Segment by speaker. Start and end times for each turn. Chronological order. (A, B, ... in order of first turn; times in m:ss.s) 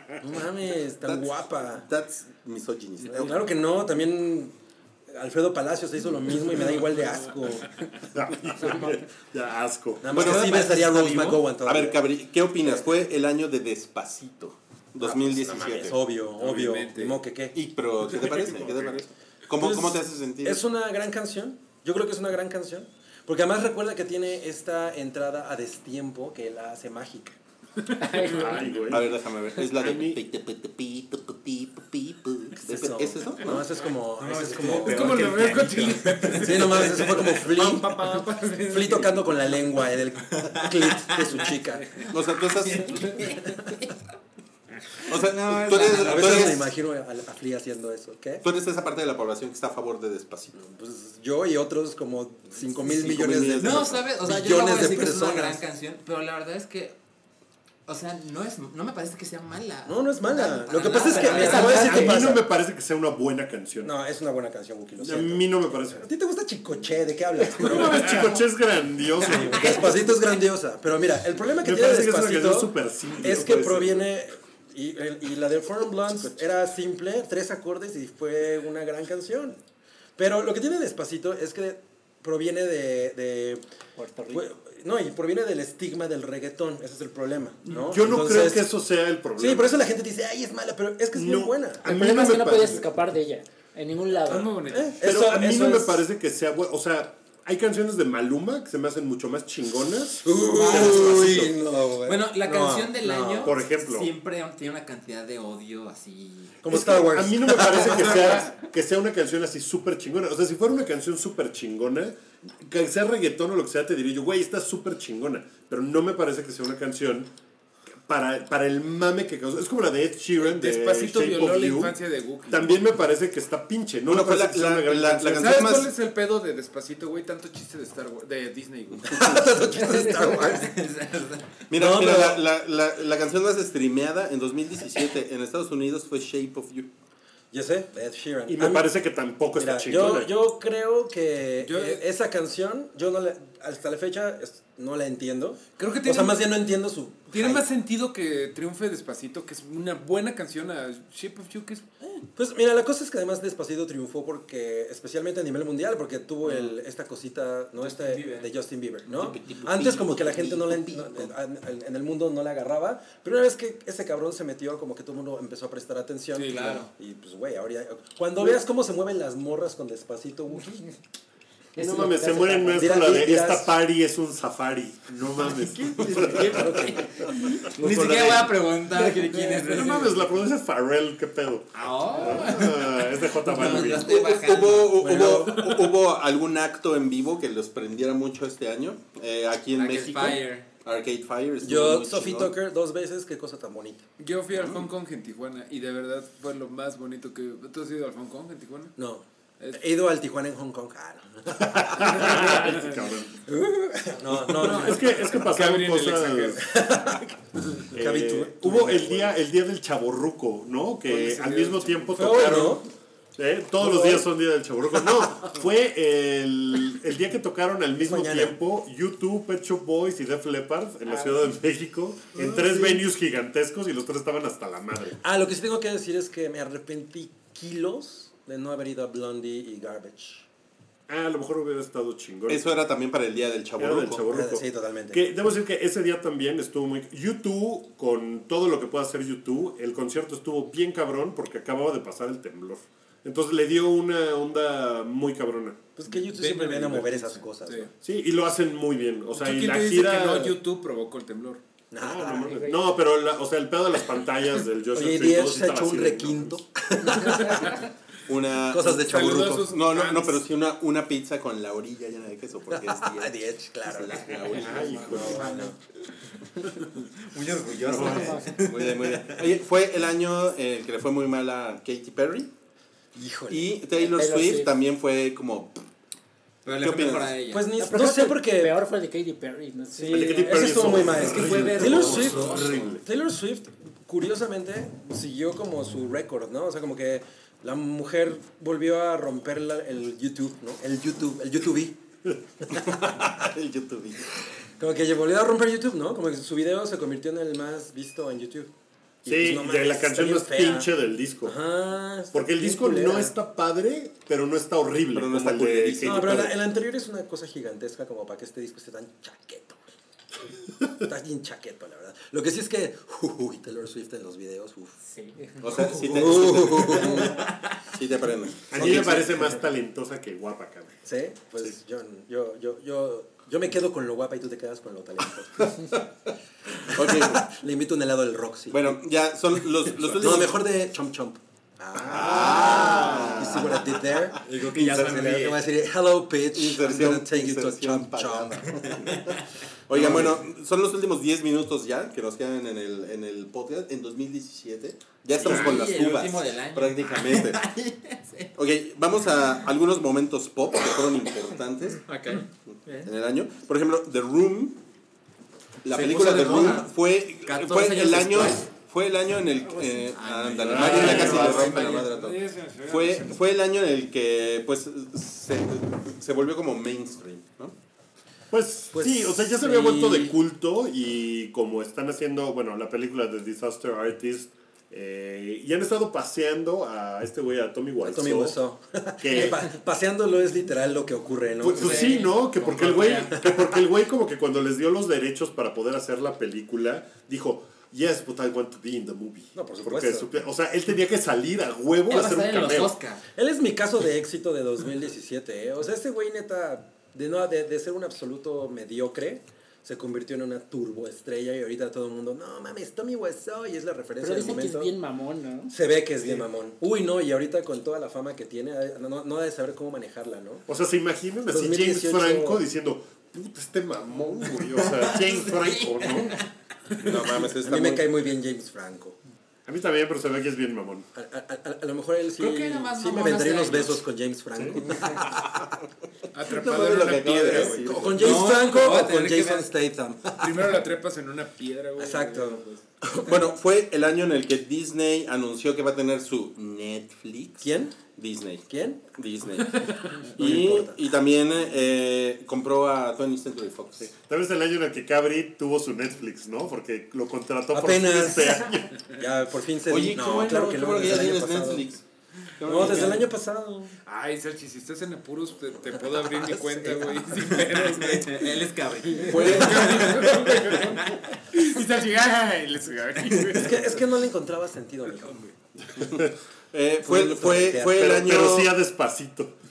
0:00.2-0:01.9 A
0:01.0-0:03.5 B
0:03.1-0:04.5 A
0:05.1-0:07.7 A
0:08.1-0:10.3 C
0:10.0-0:12.0 A
0:10.1-0:16.0 B
0:12.6-0:12.8 A
0:15.0-0:17.6 A
0:16.4-0:17.2 D
0:17.5-0:20.6 B
0:18.0-0:19.0 D
0:19.6-0:27.4 A
0:27.8-0:28.5 D
0:28.1-0:28.8 E
0:28.2-0:30.2 C
0:28.9-0:33.7 B
0:32.6-0:35.3 A
0:34.2-0:38.0 F
0:34.8-0:39.1 D
0:36.4-0:42.0 A
0:40.4-0:43.9 F
0:42.1-0:43.4 B
0:44.9-0:46.6 F
0:45.1-0:46.6 B
0:46.0-0:48.4 A
0:48.4-0:50.6 B
0:50.6-0:55.7 A
0:52.8-0:54.1 B
0:53.6-0:57.0 F
0:57.9-1:02.0 F
0:59.9-1:02.5 A
1:01.1-1:03.9 C
1:01.5-1:02.2 E
1:03.8-1:08.5 A
1:05.0-1:06.0 C
1:07.5-1:10.0 C
1:09.2-1:19.6 A
1:09.5-1:09.8 F
1:11.6-1:13.9 C
1:13.2-1:14.1 B
1:20.2-1:23.6 A
1:24.0-1:24.4 E
1:24.3-1:28.7 A
1:27.8-1:29.8 C
1:29.4-1:31.9 A
1:31.1-1:32.9 C
1:31.8-1:34.6 E
1:34.2-1:35.0 D
1:34.7-1:36.0 A
1:35.0-1:41.5 C
1:40.1-1:43.6 A
1:40.3-1:41.5 F
1:42.0-1:46.7 F
1:43.4-1:44.1 C
1:46.6-1:48.5 A
1:46.7-1:57.3 C
1:47.7-1:48.6 F
1:58.1-2:05.7 C
2:00.4-2:02.9 D
2:04.1-2:05.9 B
2:05.4-2:09.2 D
2:09.1-2:10.7 A
2:09.8-2:10.2 E
2:10.4-2:11.5 F
2:11.7-2:16.9 B
2:11.7-2:12.4 A
2:17.5-2:18.9 A
2:18.5-2:20.3 C
2:19.5-2:27.7 A
2:21.6-2:22.0 D
2:25.8-2:26.6 D
2:27.3-2:32.2 D
2:32.4-2:50.9 A
2:36.4-2:36.7 D
2:37.8-2:38.5 F
2:39.1-2:41.3 F
2:46.3-2:46.8 D
2:46.5-2:46.9 F
2:51.8-2:53.7 A
2:51.8-2:57.0 C
2:55.9-3:00.2 F
2:56.1-2:57.1 A
2:57.7-2:58.7 C
2:58.9-2:59.6 A
2:59.6-3:04.2 C
3:01.7-3:05.1 F
3:03.7-3:12.6 B
3:05.0-3:05.6 A
3:05.5-3:05.8 D
3:09.7-3:10.7 F
3:11.6-3:14.0 A
3:14.2-3:19.0 D
3:14.5-3:14.9 B
3:19.0-3:22.8 A
3:21.6-3:23.4 C
3:23.4-3:25.5 A
3:24.5-3:26.6 C
3:25.5-3:26.6 D
3:26.6-3:27.4 A
3:27.9-3:45.2 C
3:28.0-3:29.4 A
3:31.0-3:32.3 D
3:32.2-3:32.8 A
3:33.8-3:34.2 A
3:38.1-3:38.6 A
3:41.0-3:41.5 E
3:42.4-3:43.0 A
3:45.2-3:50.5 A
3:51.1-3:52.8 C
3:52.5-3:54.2 B
3:53.8-4:05.9 C
3:54.3-3:55.3 A
4:06.0-4:07.9 A
4:06.1-4:07.9 D
4:08.0-4:10.6 C
4:09.3-4:11.6 D
4:11.9-4:12.6 A
4:12.0-4:16.6 C
4:12.3-4:13.0 E
4:14.9-4:17.8 A
4:17.4-4:17.9 D
4:18.3-4:23.3 B
4:18.7-4:19.8 A
4:18.9-4:20.4 D
4:22.7-4:25.8 A
4:23.9-4:25.6 B
4:24.5-4:25.7 F
4:24.6-4:25.6 C
4:27.2-4:29.4 F
4:27.9-4:32.5 B
4:28.0-4:28.5 E
4:33.2-4:33.8 A
4:33.5-4:35.8 B
4:34.0-4:34.7 E
4:36.6-4:37.7 F
4:36.8-4:37.3 B
4:37.5-4:38.8 A
4:37.7-4:41.1 E
4:39.9-4:52.0 A
4:40.1-4:43.0 C
4:41.2-4:42.8 F
4:52.8-4:54.3 B
4:52.9-4:53.3 A
4:54.8-4:58.7 A
4:59.2-5:00.9 A
4:59.2-5:01.6 C
5:01.4-5:03.3 A
5:02.3-5:06.5 C
5:05.1-5:06.6 B
5:06.0-5:09.8 A
5:11.0-5:15.0 A
5:15.0-5:15.7 E
5:15.6-5:17.4 B
5:15.7-5:17.4 A
5:16.8-5:17.5 F
5:17.9-5:19.3 B
5:18.7-5:21.0 C
5:18.7-5:19.6 A
5:21.0-5:25.9 A
5:26.9-5:29.0 A
5:26.9-5:27.5 B
5:28.7-5:30.6 B
5:30.2-5:38.8 A
5:32.1-5:33.8 B
5:32.4-5:33.6 F
5:34.4-5:35.6 F
5:36.5-5:47.7 B
5:38.8-5:40.4 F
5:45.4-5:48.5 F
5:48.6-5:52.0 B
5:52.1-5:53.1 F
5:52.7-5:54.8 B
5:55.8-6:07.8 B
5:55.9-5:58.7 F
5:59.7-6:02.2 F
6:00.6-6:01.8 C
6:01.2-6:03.4 D
6:08.5-6:18.6 C
6:08.9-6:10.4 A
6:18.0-6:22.3 A
6:19.2-6:19.6 C
6:21.6-6:33.0 C
6:21.6-6:23.4 F
6:23.4-6:23.7 A
6:29.6-6:30.3 A
6:32.1-6:33.2 F
6:33.4-6:44.9 A
6:44.2-6:45.7 E
6:45.7-6:50.7 A
6:50.7-6:56.4 C
6:51.5-6:52.6 A
6:54.6-6:56.5 F
6:57.0-6:58.1 B
6:57.6-6:59.2 A
6:59.7-7:01.0 C
7:01.1-7:05.4 A
7:02.4-7:04.0 D
7:06.3-7:08.4 D
7:06.5-7:08.6 B
7:07.4-7:10.7 A
7:08.1-7:09.7 F
7:10.3-7:12.8 D
7:12.0-7:13.4 A
7:13.2-7:24.1 B
7:17.6-7:18.0 A
7:18.7-7:19.0 A
7:19.7-7:20.2 D
7:20.3-7:21.0 A
7:24.0-7:29.0 C
7:27.7-7:31.9 A
7:29.9-7:32.0 B
7:32.6-7:33.3 B
7:32.6-7:33.9 A
7:34.1-7:38.5 D
7:35.9-7:37.5 A
7:37.5-7:41.2 F
7:39.1-7:39.9 A
7:39.3-7:40.2 B
7:39.3-7:44.0 D
7:43.5-7:45.5 A
7:46.0-7:48.8 B
7:46.0-7:46.3 C
7:47.0-7:48.2 A
7:48.0-7:49.5 C